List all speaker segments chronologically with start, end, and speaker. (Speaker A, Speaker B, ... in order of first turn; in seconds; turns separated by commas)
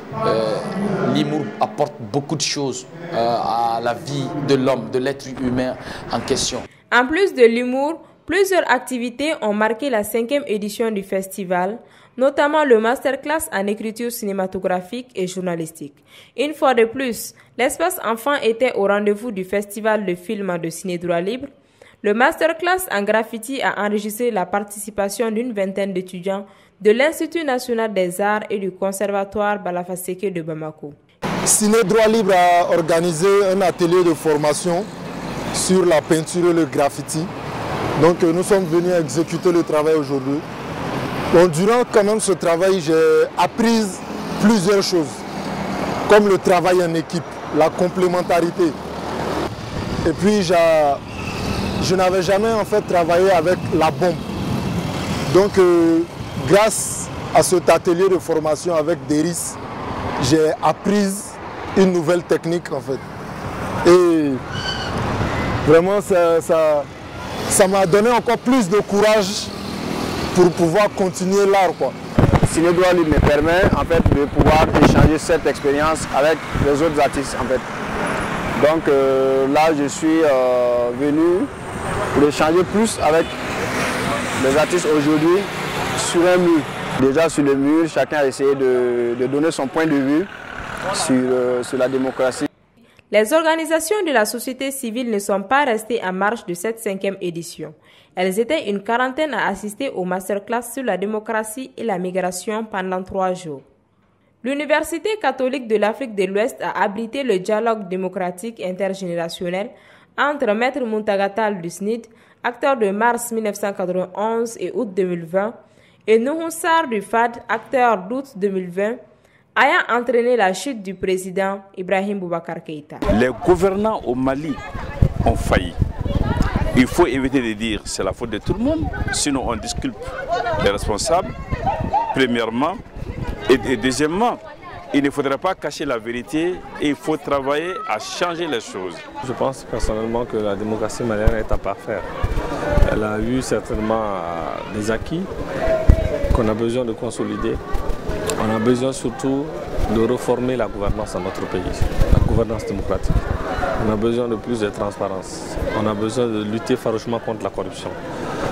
Speaker A: 0.2-6.7, Speaker B: 6.9-21.5, Speaker B: 22.0-31.0, Speaker C: 31.4-34.9, Speaker C: 35.5-37.3, Speaker C: 38.0-40.5, Speaker C: 41.3-45.2, Speaker C: 46.1-48.8, Speaker C: 50.0-51.0, Speaker C: 51.8-54.3, Speaker C: 55.3-59.6, Speaker C: 60.2-63.0, Speaker C: 63.8-64.4, Speaker C: 65.7-66.9, Speaker C: 67.5-69.5, Speaker C: 70.3-72.0, Speaker D: 72.4-77.7, Speaker D: 78.5-81.5, Speaker D: 82.1-83.3, Speaker D: 84.4-90.3, Speaker D: 90.9-92.5, Speaker B: 93.1-103.7, Speaker B: 104.4-115.6, Speaker B: 116.1-119.0, Speaker B: 119.6-123.0, Speaker E: 123.1-124.6, Speaker E: 125.3-125.8, Speaker E: 126.8-131.3, Speaker E: 132.1-132.8, Speaker E: 133.5-134.4, Speaker E: 134.9-139.1, Speaker F: 139.2-142.1, Speaker F: 142.9-145.3, Speaker F: 146.3-147.6, Speaker F: 148.4-153.2, Speaker F: 153.8-158.0